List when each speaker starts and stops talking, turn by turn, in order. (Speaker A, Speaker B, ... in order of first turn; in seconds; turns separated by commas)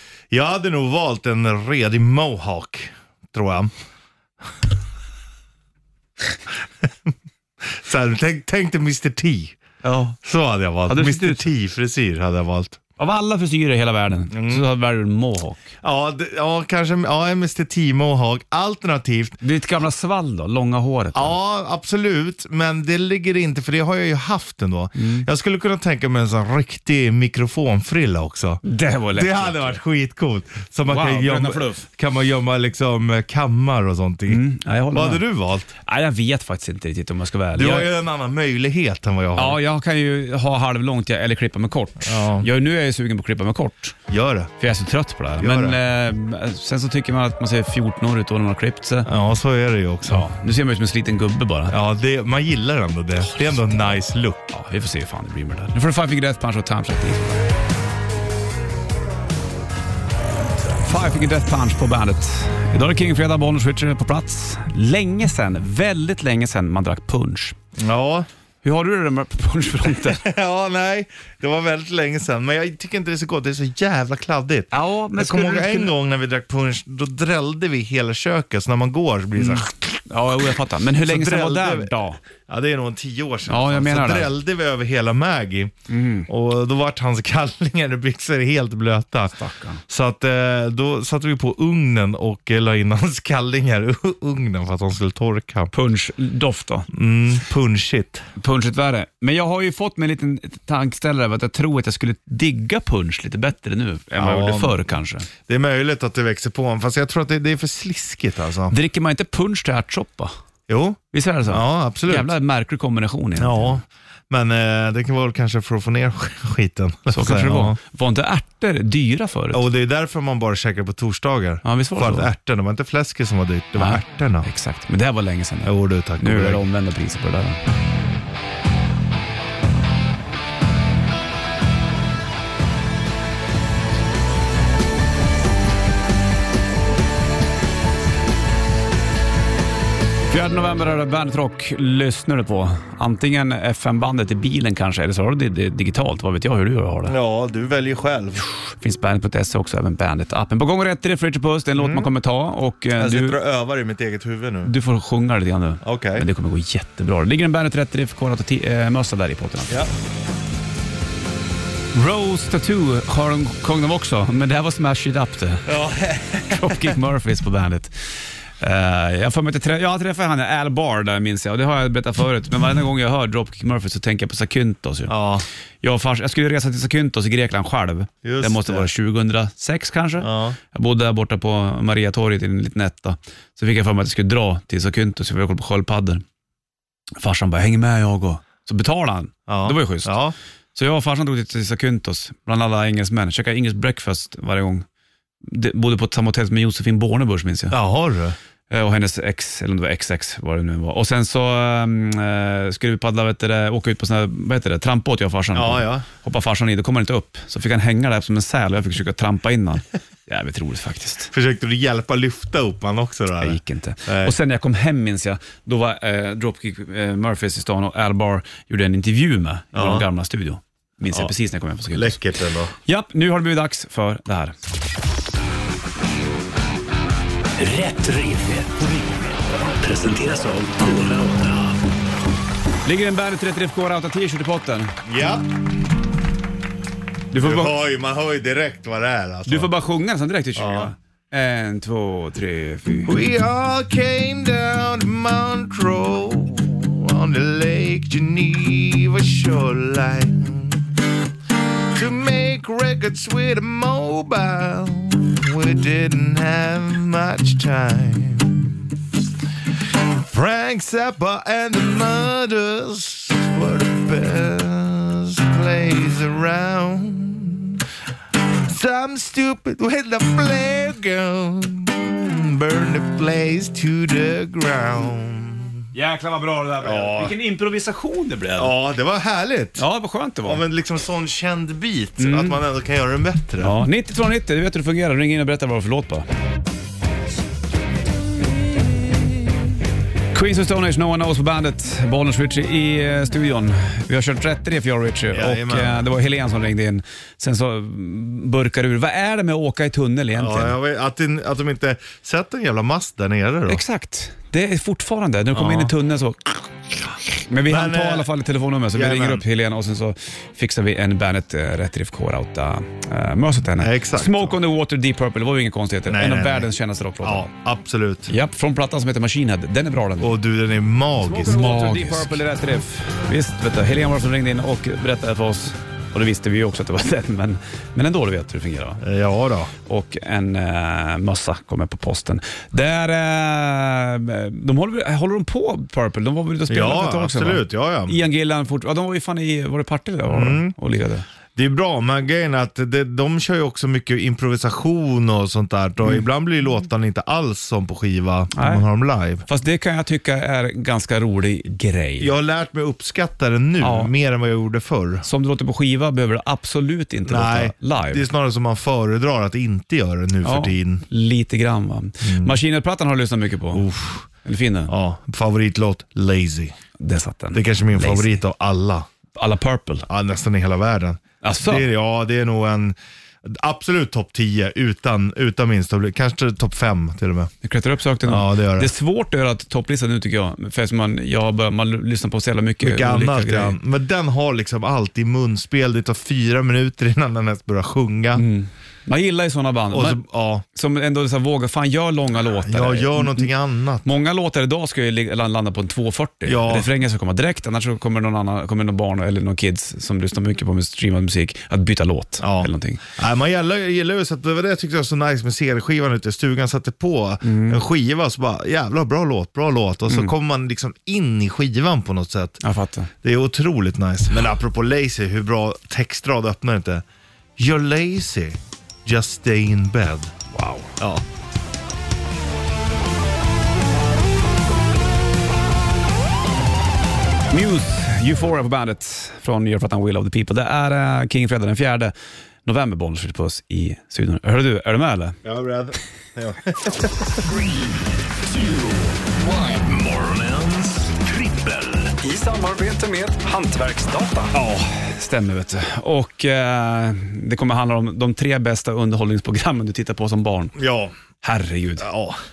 Speaker A: 0.3-3.7, Speaker A: 6.8-7.1, Speaker A: 7.6-9.6, Speaker B: 9.8-10.1, Speaker A: 10.2-12.8, Speaker B: 10.9-11.4, Speaker B: 13.0-15.7, Speaker A: 14.3-14.7, Speaker A: 15.8-19.4, Speaker B: 19.4-21.4, Speaker A: 21.1-28.6, Speaker B: 25.0-25.2, Speaker B: 28.6-29.8, Speaker A: 29.1-35.7, Speaker B: 30.9-31.8, Speaker B: 34.3-35.2, Speaker B: 35.8-37.9, Speaker A: 37.5-39.6, Speaker B: 39.4-44.0, Speaker A: 42.0-42.5, Speaker A: 44.1-44.5, Speaker B: 44.6-49.1, Speaker A: 45.4-45.8, Speaker A: 49.0-50.2, Speaker B: 50.0-51.7, Speaker A: 51.7-54.4, Speaker B: 54.5-57.5, Speaker B: 60.8-67.5, Speaker A: 67.8-68.3, Speaker B: 68.6-70.2, Speaker A: 69.9-80.0, Speaker B: 74.7-75.9, Speaker B: 79.4-82.2, Speaker A: 81.0-81.9, Speaker A: 82.5-85.7, Speaker B: 83.5-84.3, Speaker B: 85.9-86.3, Speaker A: 86.3-95.7, Speaker B: 89.3-89.8, Speaker B: 95.7-96.9, Speaker A: 96.9-98.2, Speaker B: 98.4-105.3, Speaker A: 104.2-104.7, Speaker A: 105.5-108.7, Speaker B: 108.7-110.3, Speaker A: 110.7-112.3, Speaker B: 111.1-113.8, Speaker A: 113.4-117.8, Speaker B: 117.1-119.6, Speaker A: 119.5-124.5, Speaker B: 121.6-122.3, Speaker B: 123.8-127.6, Speaker A: 125.6-126.6, Speaker B: 140.3-147.2, Speaker A: 147.1-148.4, Speaker B: 148.7-153.4, Speaker A: 151.8-152.1, Speaker A: 152.9-154.7, Speaker B: 154.6-159.8, Speaker A: 155.8-156.2, Speaker B: 161.9-165.7, Speaker A: 165.7-166.9, Speaker B: 166.5-167.9, Speaker B: 168.6-175.1, Speaker A: 175.1-175.4, Speaker B: 175.8-186.2, Speaker A: 178.2-178.9, Speaker A: 180.2-180.6, Speaker B: 187.2-190.2, Speaker A: 189.5-190.3, Speaker B: 190.7-194.8, Speaker B: 195.4-197.8, Speaker A: 197.7-198.3, Speaker B: 198.7-211.3, Speaker A: 205.5-206.1, Speaker A: 211.3-214.3, Speaker B: 213.4-222.2, Speaker A: 219.7-220.1, Speaker A: 221.9-222.7, Speaker B: 222.8-224.5, Speaker C: 227.6-231.8, Speaker B: 232.8-234.9, Speaker A: 235.0-235.4, Speaker B: 237.3-237.7, Speaker A: 237.3-239.7, Speaker B: 239.4-243.1, Speaker A: 240.6-240.9, Speaker A: 243.1-250.9, Speaker A: 251.9-258.9, Speaker A: 260.2-267.8, Speaker A: 268.5-275.8, Speaker B: 275.9-278.7, Speaker A: 276.8-277.3, Speaker A: 278.6-279.8, Speaker B: 279.8-280.6, Speaker A: 280.4-283.8, Speaker B: 282.2-282.6, Speaker B: 283.6-286.2, Speaker B: 290.3-300.8, Speaker A: 295.3-296.1, Speaker A: 300.4-303.8, Speaker B: 303.7-306.6, Speaker A: 305.5-305.9, Speaker B: 307.4-317.5, Speaker A: 307.7-308.3, Speaker A: 308.9-309.4, Speaker A: 313.8-314.6, Speaker A: 316.1-316.7, Speaker A: 317.2-318.3, Speaker B: 318.3-320.3, Speaker A: 320.2-322.4, Speaker B: 321.2-329.0, Speaker A: 329.0-329.7, Speaker B: 329.9-341.2, Speaker A: 336.7-338.2, Speaker A: 340.3-340.7, Speaker A: 341.6-349.4, Speaker B: 348.5-348.8, Speaker B: 349.4-352.3, Speaker A: 352.2-355.2, Speaker B: 353.8-354.1, Speaker B: 355.2-358.2, Speaker A: 357.3-361.0, Speaker B: 360.4-363.9, Speaker A: 362.2-362.6, Speaker A: 363.7-364.3, Speaker B: 364.4-364.9, Speaker A: 364.9-366.7, Speaker B: 367.0-368.4, Speaker A: 367.5-369.1, Speaker B: 369.3-370.1, Speaker A: 370.1-377.5, Speaker B: 371.4-371.9, Speaker B: 377.6-383.8, Speaker A: 378.2-378.9, Speaker A: 382.8-388.4, Speaker B: 388.3-390.2, Speaker A: 389.9-390.6, Speaker B: 390.7-393.5, Speaker A: 392.6-394.0, Speaker B: 394.0-403.0, Speaker A: 396.4-396.9, Speaker A: 402.4-412.6, Speaker B: 407.4-407.8, Speaker B: 412.6-413.1, Speaker A: 413.2-417.0, Speaker A: 417.6-420.3, Speaker B: 420.5-420.9, Speaker A: 421.0-421.2, Speaker B: 427.5-432.1, Speaker B: 432.6-435.4, Speaker A: 435.4-437.2, Speaker C: 437.4-437.7, Speaker C: 438.4-442.1, Speaker B: 442.2-450.7, Speaker A: 450.8-451.1, Speaker B: 451.4-452.1, Speaker A: 452.0-452.4